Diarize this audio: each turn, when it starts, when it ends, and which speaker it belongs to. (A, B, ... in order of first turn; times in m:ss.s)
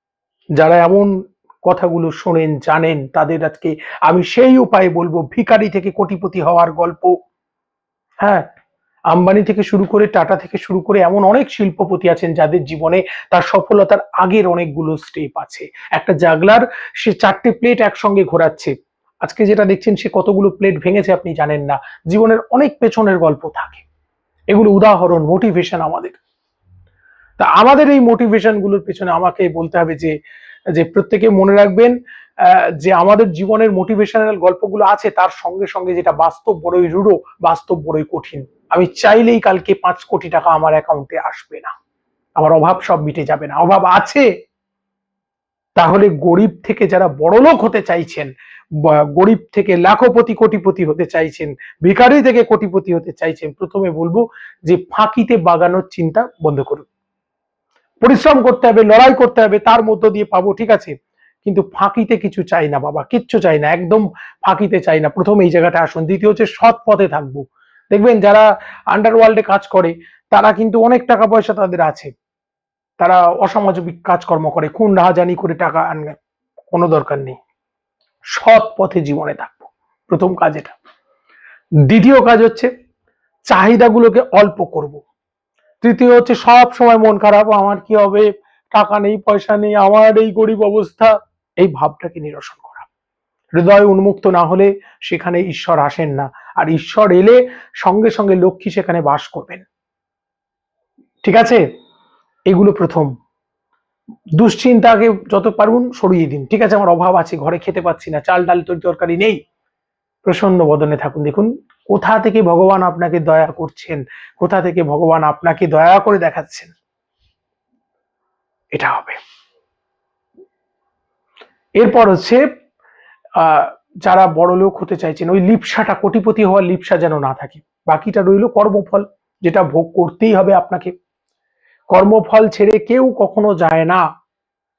0:00.6-0:01.1 A
0:01.6-0:07.1 A
0:09.1-0:18.7 A
0:19.2-0:23.8 A
0:24.5-0:26.2 A
0:27.4-0:30.1 A
0:30.7-0:41.7 A
0:42.4-0:44.2 A
0:45.8-0:48.3 A
0:48.8-0:56.9 A
0:58.0-1:00.9 A
1:01.4-1:12.1 A
1:13.0-1:16.2 A
1:16.7-1:17.4 A
1:18.3-1:20.7 A
1:21.9-1:22.7 A
1:23.5-1:25.0 A
1:25.8-1:32.9 A
1:33.6-1:39.6 A
1:41.2-1:41.6 A
1:42.5-1:43.1 A
1:44.4-1:49.4 A
1:50.2-1:56.7 A
1:58.7-1:59.2 A
2:01.8-2:02.4 A
2:03.4-2:10.9 A
2:11.9-2:14.0 A